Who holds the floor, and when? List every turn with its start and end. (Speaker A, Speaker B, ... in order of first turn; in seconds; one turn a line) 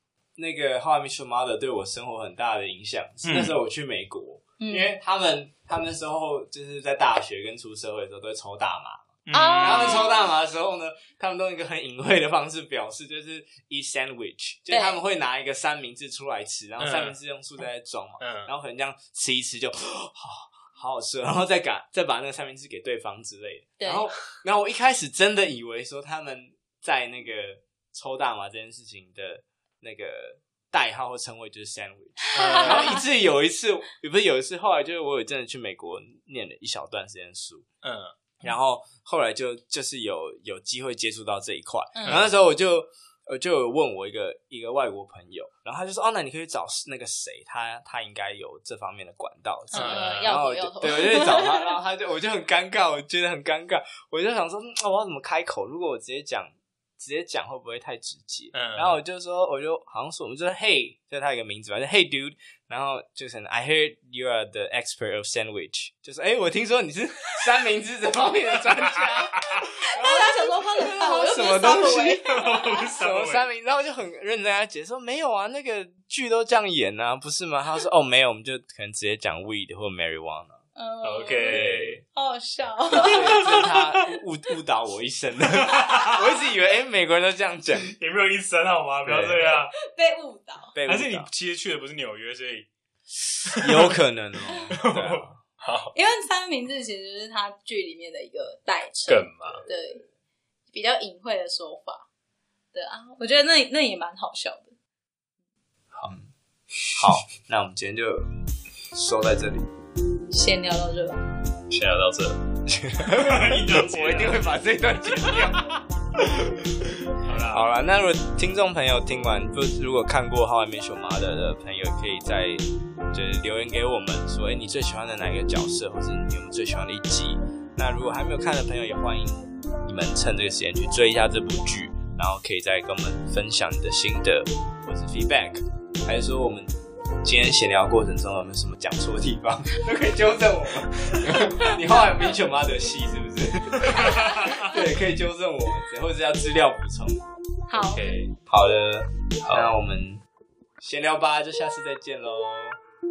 Speaker A: 0.4-9.1
Speaker B: 3.2-3.6
Speaker C: 4.6-4.9
Speaker B: 9.3-10.1
Speaker C: 9.3-10.3
Speaker A: 9.6-37.6
Speaker C: 14.7-15.0
Speaker B: 16.8-17.2
Speaker B: 18.2-18.5
Speaker C: 23.8-24.1
Speaker B: 32.3-33.0
Speaker C: 32.4-33.0
Speaker B: 37.8-38.1
Speaker A: 38.4-80.6
Speaker C: 41.9-42.3
Speaker B: 42.1-42.4
Speaker C: 49.7-51.7
Speaker B: 49.7-50.4
Speaker B: 58.5-59.0
Speaker B: 69.1-69.4
Speaker C: 69.9-72.9
Speaker B: 72.2-73.5
Speaker C: 80.8-83.7
Speaker B: 81.0-82.0
Speaker A: 81.5-82.0
Speaker A: 82.9-87.9
Speaker B: 83.0-83.8
Speaker B: 85.5-86.3
Speaker B: 87.9-89.7
Speaker A: 89.1-89.5
Speaker C: 89.8-90.7
Speaker A: 90.7-91.3
Speaker B: 90.8-92.7
Speaker B: 93.4-94.0
Speaker A: 93.6-95.4
Speaker B: 94.7-95.9
Speaker C: 95.9-100.0
Speaker B: 99.1-99.6
Speaker A: 99.7-100.0
Speaker C: 100.7-102.1
Speaker C: 102.7-104.8
Speaker A: 107.0-108.3
Speaker A: 108.9-109.7
Speaker C: 110.3-111.3
Speaker B: 111.7-112.4
Speaker A: 112.7-115.7
Speaker B: 113.0-114.7
Speaker B: 115.3-115.6
Speaker B: 117.1-117.7
Speaker A: 117.5-147.2
Speaker B: 143.8-144.8
Speaker C: 147.7-148.2
Speaker B: 147.8-148.3
Speaker A: 148.5-150.2
Speaker B: 149.4-149.8
Speaker A: 150.8-152.8